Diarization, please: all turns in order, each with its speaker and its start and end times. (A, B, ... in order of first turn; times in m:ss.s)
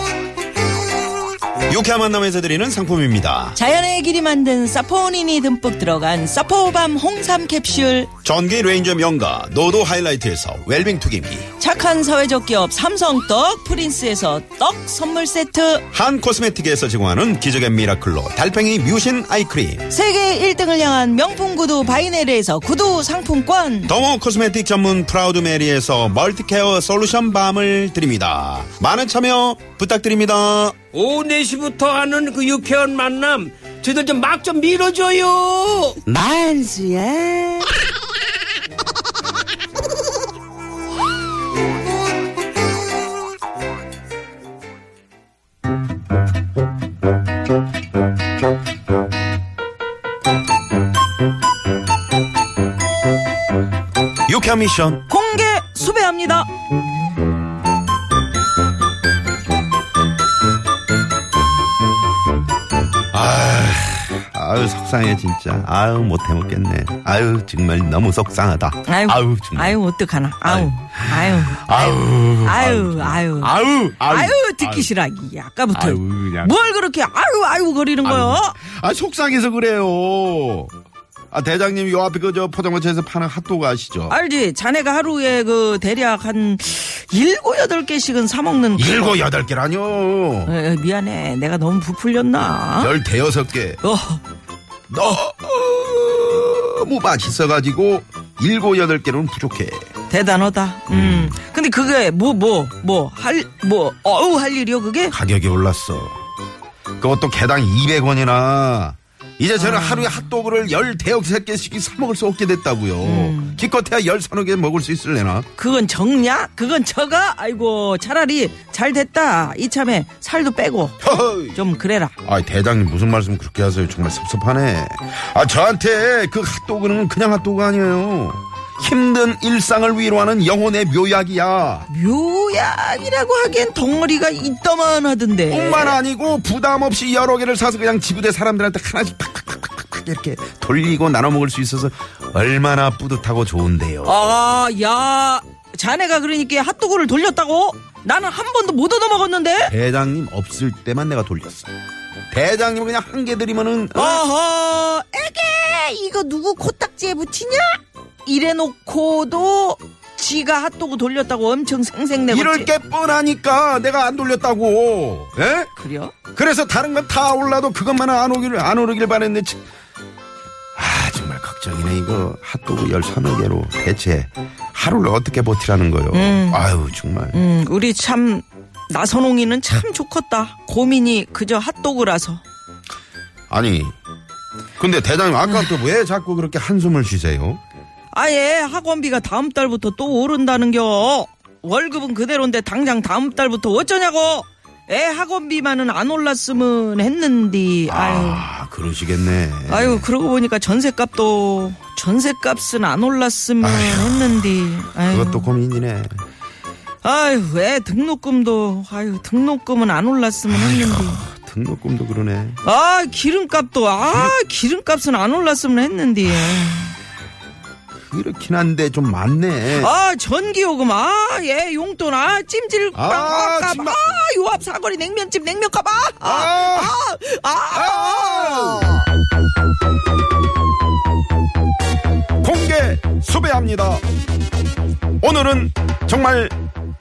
0:01.7-0:03.6 A
0:03.6-0:08.1 B
0:08.2-0:11.5 A
0:11.6-0:15.9 B
0:15.9-0:19.9 A
0:19.9-0:23.9 B
0:23.9-0:30.8 A
0:30.9-0:37.7 C
0:54.3-0:55.0 A
0:55.1-0:56.5 B
1:03.1-1:09.8 A
1:08.9-1:18.6 B
1:10.4-1:14.9 A
1:15.7-1:16.6 A
1:18.0-1:20.7 A
1:21.3-1:24.2 A
1:24.1-1:29.2 B
1:28.8-1:30.5 A
1:30.4-1:32.9 B
1:32.8-1:33.8 A
1:33.8-1:34.2 B
1:34.9-1:39.9 A
1:40.1-1:45.2 B
1:40.9-1:41.4 A
1:45.1-1:46.2 A
1:47.0-1:55.5 A
1:49.6-1:50.3 B
1:53.0-1:53.6 B
1:55.6-2:02.2 B
2:01.0-2:01.6 A
2:02.2-2:11.9 A
2:11.9-2:16.0 B
2:15.5-2:24.3 A
2:24.0-2:29.7 B
2:29.7-2:31.7 A
2:32.3-2:34.2 A
2:34.0-2:42.7 B
2:42.3-2:45.7 A
2:45.8-2:46.2 B
2:46.3-2:49.7 A
2:50.8-2:57.4 A
2:56.1-2:56.6 B
2:57.3-3:02.4 B
3:03.5-3:04.0 A
3:04.8-3:07.6 A
3:08.1-3:18.5 B
3:17.9-3:20.1 A
3:19.7-3:25.5 B
3:23.6-3:26.2 A
3:27.0-3:31.2 B
3:30.5-3:32.6 A
3:32.6-3:37.0 B
3:34.1-3:34.3 A
3:38.0-3:39.9 A
3:39.7-3:49.0 B
3:43.0-3:44.0 A
3:46.2-3:47.0 A
3:47.7-3:49.1 A
3:52.4-3:54.0 A
3:55.2-3:56.5 A